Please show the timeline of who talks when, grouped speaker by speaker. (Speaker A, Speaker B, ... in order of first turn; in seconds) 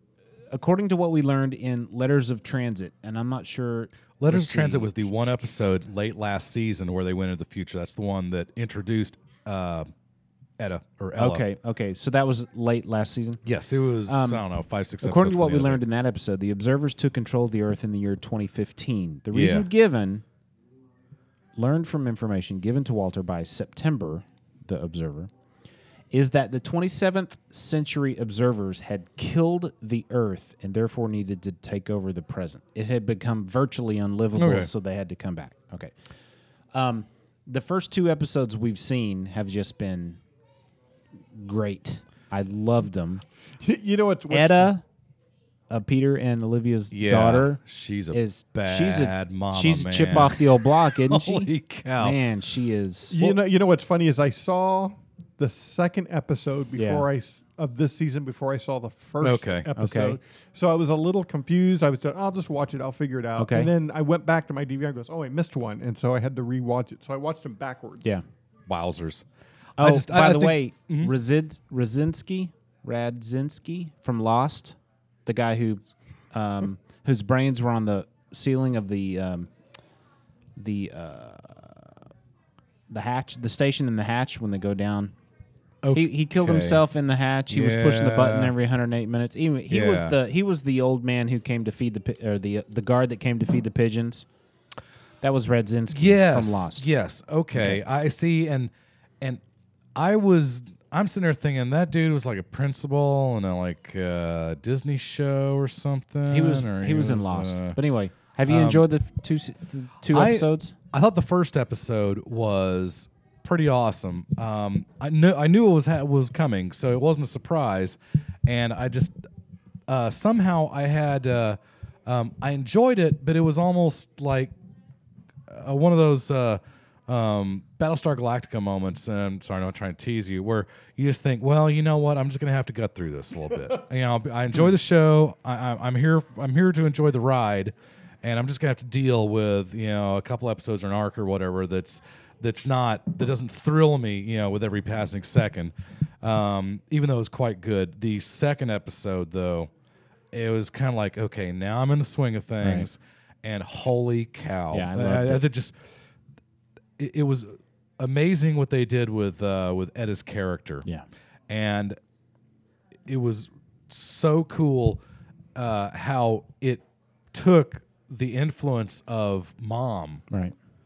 Speaker A: 0.5-5.5, 11.2-13.4, 14.1-14.4, 15.0-20.2, 21.6-25.3, 26.1-35.9, 36.7-40.2, 41.3-43.2, 44.3-44.8, 45.7-47.6, 48.1-53.3, 56.8-57.0, 59.8-60.2, 63.4-63.7, 69.8-79.5, 80.5-81.9, 82.9-85.1, 85.9-94.2, 95.2-96.8, 106.3-110.7, 152.6-152.9, 154.7-155.4
Speaker B: 4.2-9.9, 10.6-11.4, 13.4-15.8, 19.3-19.7, 34.3-34.7, 46.9-52.2, 59.2-59.7, 68.7-69.2, 69.8-71.1, 85.8-86.8, 87.5-88.5, 89.7-90.2, 95.9-99.4, 99.9-107.8, 108.5-108.8, 110.1-119.2, 119.9-124.5, 125.5-149.7, 150.3-155.8, 157.0-160.8, 161.5-162.0, 163.1-165.0, 165.5-170.2
Speaker C: 43.6-44.7, 53.1-68.1